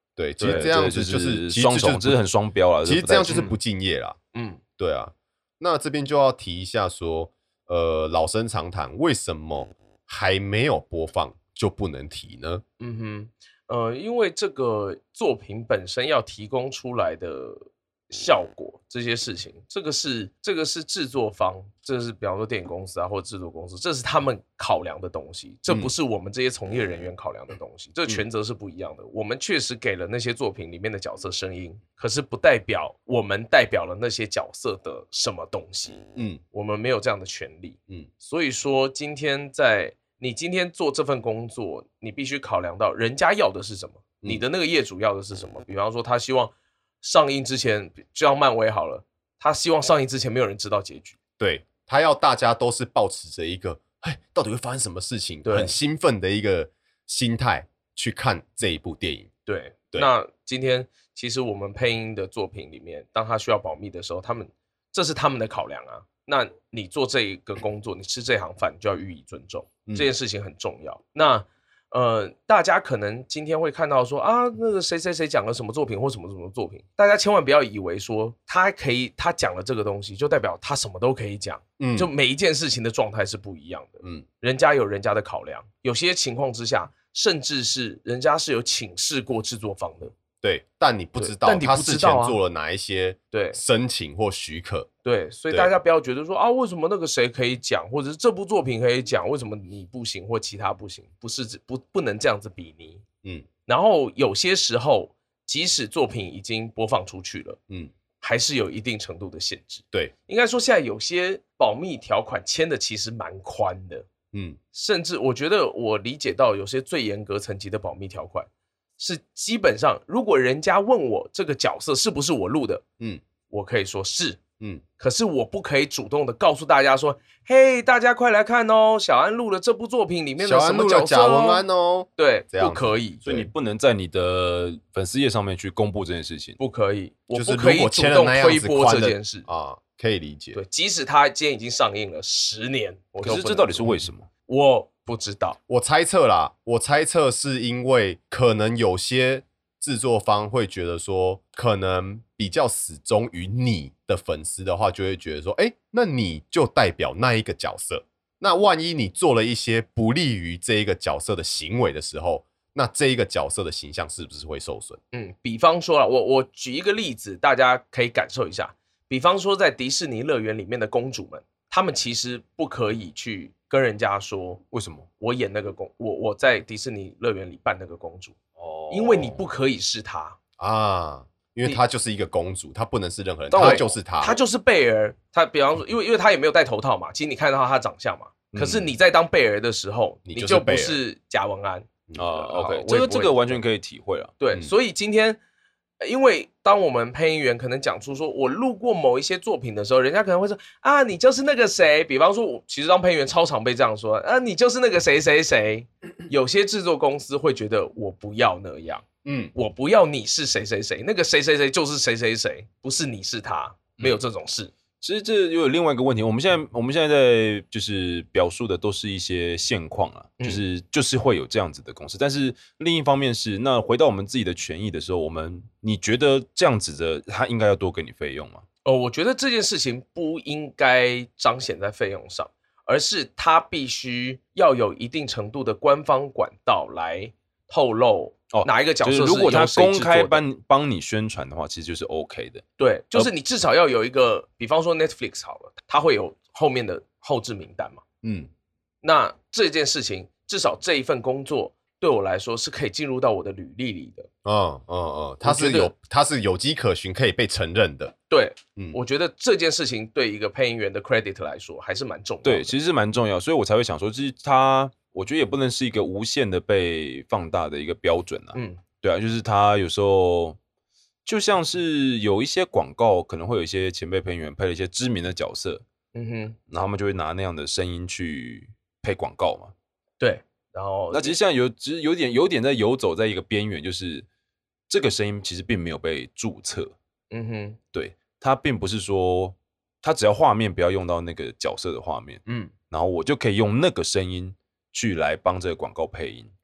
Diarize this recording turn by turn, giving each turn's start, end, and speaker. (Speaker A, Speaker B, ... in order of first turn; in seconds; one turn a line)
Speaker A: 0.2-2.2
Speaker B: 0.4-0.8
Speaker C: 0.4-3.5
Speaker A: 2.8-4.2
Speaker B: 3.3-3.5
Speaker B: 4.3-4.6
Speaker A: 4.8-12.6
Speaker B: 12.8-51.2
Speaker A: 36.1-36.4
Speaker A: 51.4-59.3
Speaker B: 55.4-55.7
Speaker B: 59.5-90.1
Speaker A: 81.8-82.1
Speaker A: 90.4-94.9
Speaker B: 91.2-92.4
Speaker B: 93.3-93.6
Speaker B: 95.0-103.0
Speaker B: 103.7-107.6
Speaker B: 108.2-114.0
Speaker A: 114.3-114.6
Speaker B: 114.7-122.8
Speaker B: 123.5-124.4
Speaker B: 125.0-131.6
Speaker A: 130.4-132.9
Speaker B: 132.2-133.5
Speaker C: 133.2-136.6
Speaker B: 136.6-139.4
Speaker A: 137.3-140.6
Speaker B: 140.5-143.9
Speaker C: 143.2-144.3
Speaker B: 144.5-145.6
Speaker A: 145.7-165.0
Speaker B: 165.1-174.6
Speaker C: 174.7-175.1
Speaker B: 175.2-178.3
Speaker C: 178.6-179.4
Speaker B: 178.9-180.4
Speaker A: 180.6-184.4
Speaker C: 183.5-183.9
Speaker B: 183.6-193.6
Speaker C: 188.5-188.9
Speaker A: 190.2-191.0
Speaker C: 192.1-194.3
Speaker B: 194.4-195.4
Speaker B: 196.0-209.0
Speaker A: 209.2-209.5
Speaker B: 209.5-214.7
Speaker C: 215.0-228.6
Speaker B: 228.8-240.4
Speaker C: 238.5-243.3
Speaker B: 242.8-248.0
Speaker A: 248.2-248.5
Speaker B: 249.0-254.3
Speaker A: 254.4-258.1
Speaker B: 255.4-255.9
Speaker B: 258.3-262.7
Speaker C: 262.4-270.6
Speaker B: 268.5-268.8
Speaker C: 271.2-275.8
Speaker B: 276.1-276.6
Speaker C: 276.7-279.7
Speaker B: 280.2-281.4
Speaker C: 281.1-284.2
Speaker C: 284.9-286.9
Speaker B: 287.3-287.8
Speaker C: 287.9-296.5
Speaker B: 292.4-292.7